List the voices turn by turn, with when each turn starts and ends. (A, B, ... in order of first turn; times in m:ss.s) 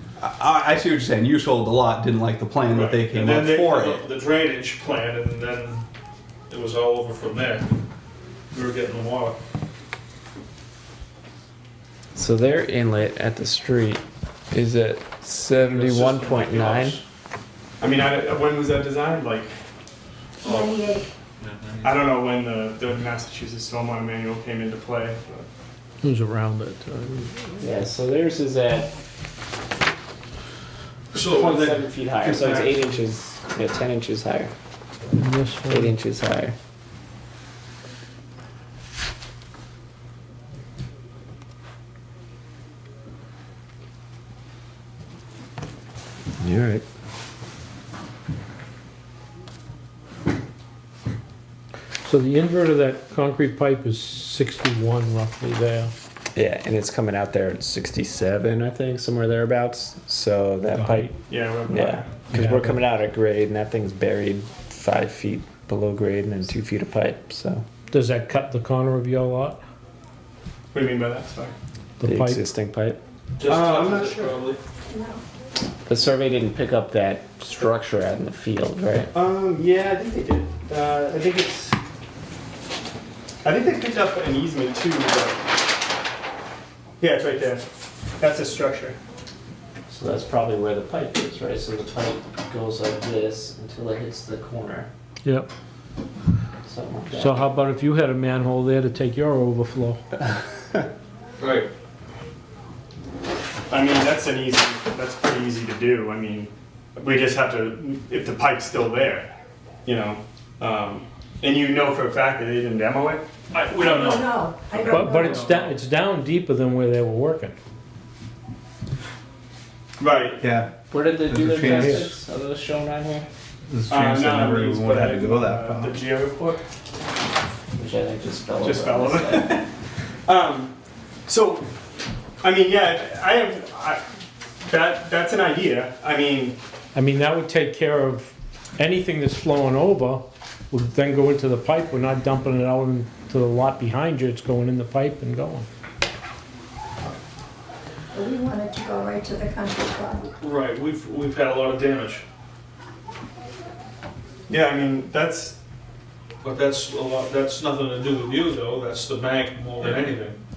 0:00.2-0:04.0 A
0:02.7-0:05.8 B
0:06.5-0:07.7 B
0:08.5-0:09.4 B
0:12.1-0:17.0 C
0:15.5-0:17.0 B
0:17.8-0:19.5 D
0:20.4-0:20.8 B
0:20.5-0:21.1 C
0:20.7-0:21.1 E
0:21.4-0:21.9 B
0:21.8-0:25.5 D
0:26.0-0:27.8 F
0:27.6-0:28.9 C
0:31.1-0:33.0 B
0:31.2-0:34.5 C
0:35.1-0:35.9 F
0:35.7-0:36.6 C
0:46.4-0:46.8 C
0:52.0-0:55.9 F
0:56.3-1:01.1 C
1:00.7-1:01.1 F
1:01.2-1:02.3 D
1:01.7-1:07.6 C
1:02.3-1:02.8 F
1:07.9-1:09.6 F
1:10.7-1:11.5 D
1:12.0-1:12.4 F
1:12.0-1:13.0 C
1:13.4-1:14.6 B
1:13.4-1:14.4 D
1:14.9-1:15.2 C
1:15.8-1:19.1 C
1:19.1-1:21.8 D
1:23.4-1:25.4 D
1:27.0-1:27.6 D
1:28.2-1:29.0 D
1:29.9-1:34.9 C
1:35.2-1:35.5 F
1:36.6-1:37.4 C
1:37.1-1:40.0 F
1:41.4-1:41.7 B
1:43.7-1:49.3 D
1:49.8-1:53.2 D
1:53.5-1:55.7 B
1:53.8-1:55.0 C
1:54.1-1:55.2 E
1:54.9-1:57.6 F
2:00.0-2:00.4 D
2:00.4-2:02.2 A
2:00.9-2:03.3 C
2:01.6-2:02.1 F
2:03.7-2:05.9 A
2:03.9-2:06.6 D
2:07.8-2:09.0 C
2:08.5-2:09.7 D
2:10.2-2:10.7 D
2:11.3-2:11.7 D
2:12.4-2:14.0 D
2:14.6-2:16.6 D
2:16.9-2:25.7 F
2:28.1-2:30.3 E
2:30.4-2:32.2 B
2:34.5-2:35.6 D
2:36.4-2:40.4 B